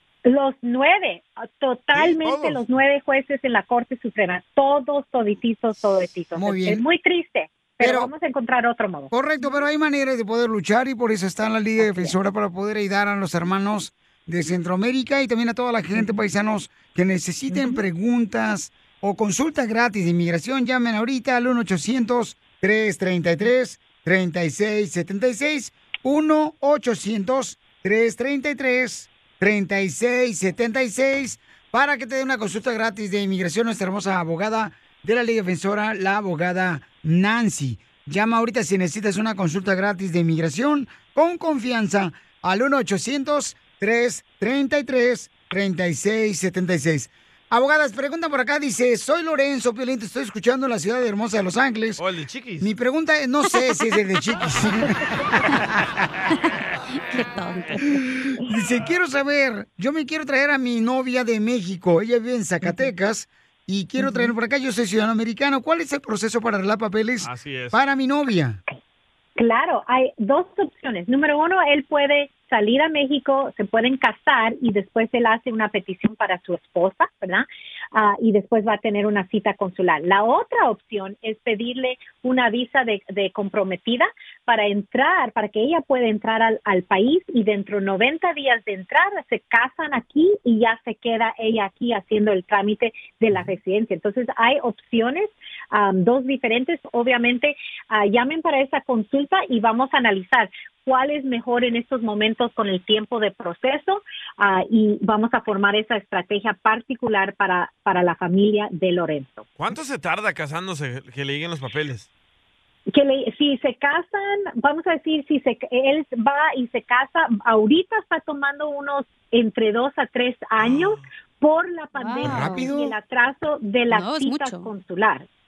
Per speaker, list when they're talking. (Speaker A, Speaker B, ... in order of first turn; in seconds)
Speaker A: 0.2-9.1, 11.8-12.1, 69.4-109.5, 112.9-125.3
Speaker B: 1.9-2.6, 52.0-52.7, 67.2-67.8, 109.6-112.1, 120.6-121.0
Speaker C: 6.4-6.8, 7.8-8.1, 9.1-52.0, 52.6-54.9, 58.5-68.6, 122.2-122.9
Speaker D: 57.1-57.8, 122.0-122.8, 123.9-124.7